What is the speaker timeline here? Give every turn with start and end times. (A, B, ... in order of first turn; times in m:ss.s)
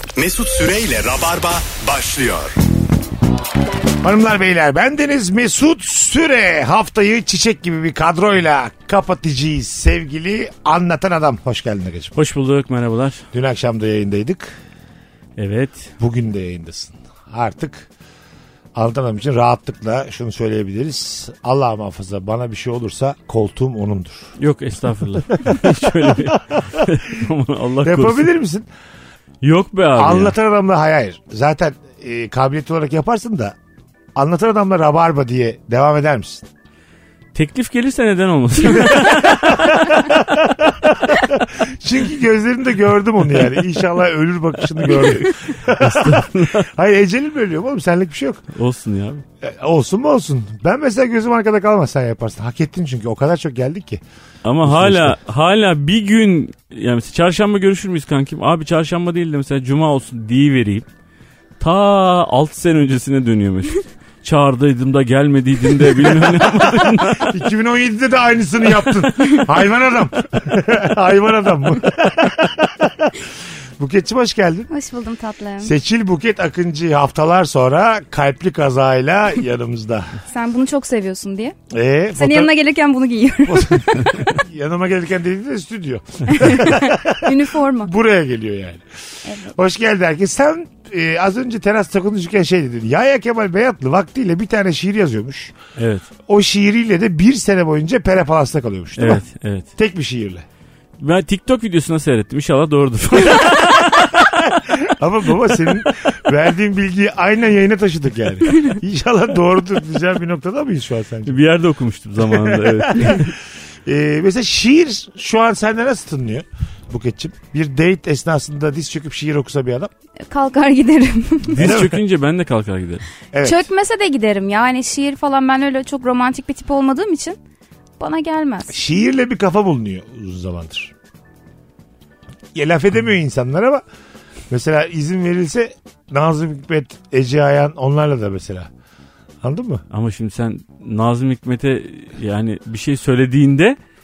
0:00.2-0:02.6 A
0:04.0-0:12.2 B
0:12.2-0:13.2 C
0:13.3-0:14.6 B
0:15.4-0:15.9 C
0:16.0-0:17.9 B
0:18.8-0:24.3 B
0:24.4-0:28.3 C
0:25.3-0:26.9 B
0:27.8-0:28.7 B
0:29.4-0:30.3 C
0:30.0-0:33.6 B
0:34.2-0:36.4 B
0:37.3-0:40.0 C
0:38.7-0:48.4 B
0:44.9-0:46.7 C
0:48.5-0:49.2 C
0:49.4-0:54.0 B
0:54.4-1:00.9 C
0:54.6-0:55.2 B
1:01.6-1:07.3 C
1:06.2-1:14.7 B
1:14.7-1:15.7 D
1:15.6-1:20.2 B
1:20.3-1:21.6 D
1:21.7-1:22.5 B
1:22.2-1:24.2 D
1:23.5-1:28.8 B
1:26.3-1:27.9 D
1:29.5-1:35.6 B
1:35.8-1:36.1 C
1:36.3-1:39.2 B
1:39.0-1:39.7 C
1:39.8-1:40.4 B
1:41.0-1:44.2 C
1:43.3-1:51.4 B
1:51.2-1:53.3 C
1:52.2-1:59.9 B
2:00.3-2:01.6 D
2:01.5-2:03.0 C
2:01.6-2:02.0 B
2:03.3-2:03.7 B
2:03.4-2:07.4 D
2:08.0-2:08.8 D
2:08.7-2:10.9 B
2:12.5-2:13.8 B
2:14.5-2:18.7 B
2:19.4-2:19.8 B
2:19.9-2:23.8 C